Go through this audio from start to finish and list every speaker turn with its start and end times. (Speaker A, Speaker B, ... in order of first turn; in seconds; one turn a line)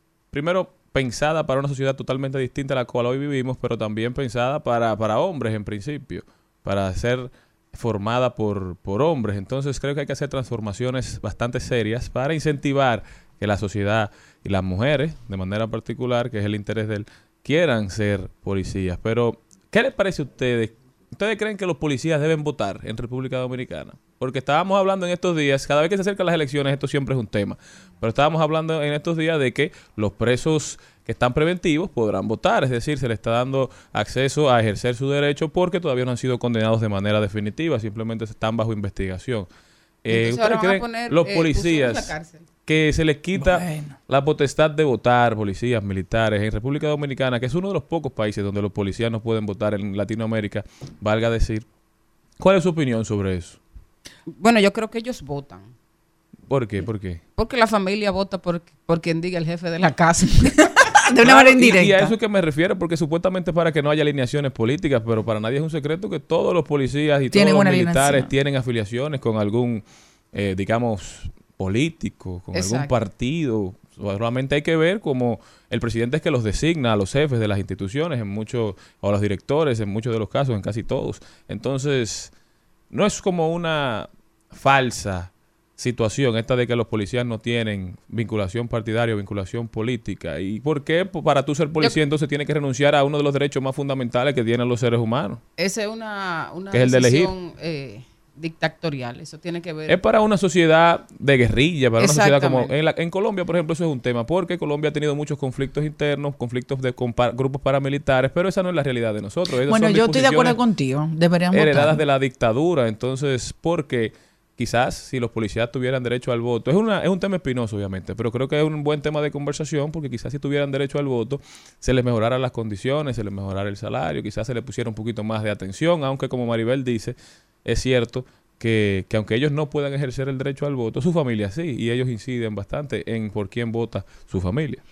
Speaker A: 0.3-39.5
Speaker A: 40.0-51.6
Speaker B: 40.1-42.5
Speaker C: 43.4-44.0
Speaker A: 52.4-53.6
Speaker B: 54.4-55.7
Speaker A: 56.5-57.2
Speaker B: 57.4-60.7
Speaker C: 60.6-62.1
Speaker A: 61.2-82.3
Speaker C: 67.3-68.3
Speaker B: 72.5-72.9
Speaker A: 82.9-95.4
Speaker B: 95.6-100.0
Speaker A: 96.7-97.3
Speaker A: 99.9-110.6
Speaker B: 102.0-102.7
Speaker C: 109.7-112.0
Speaker A: 111.5-134.8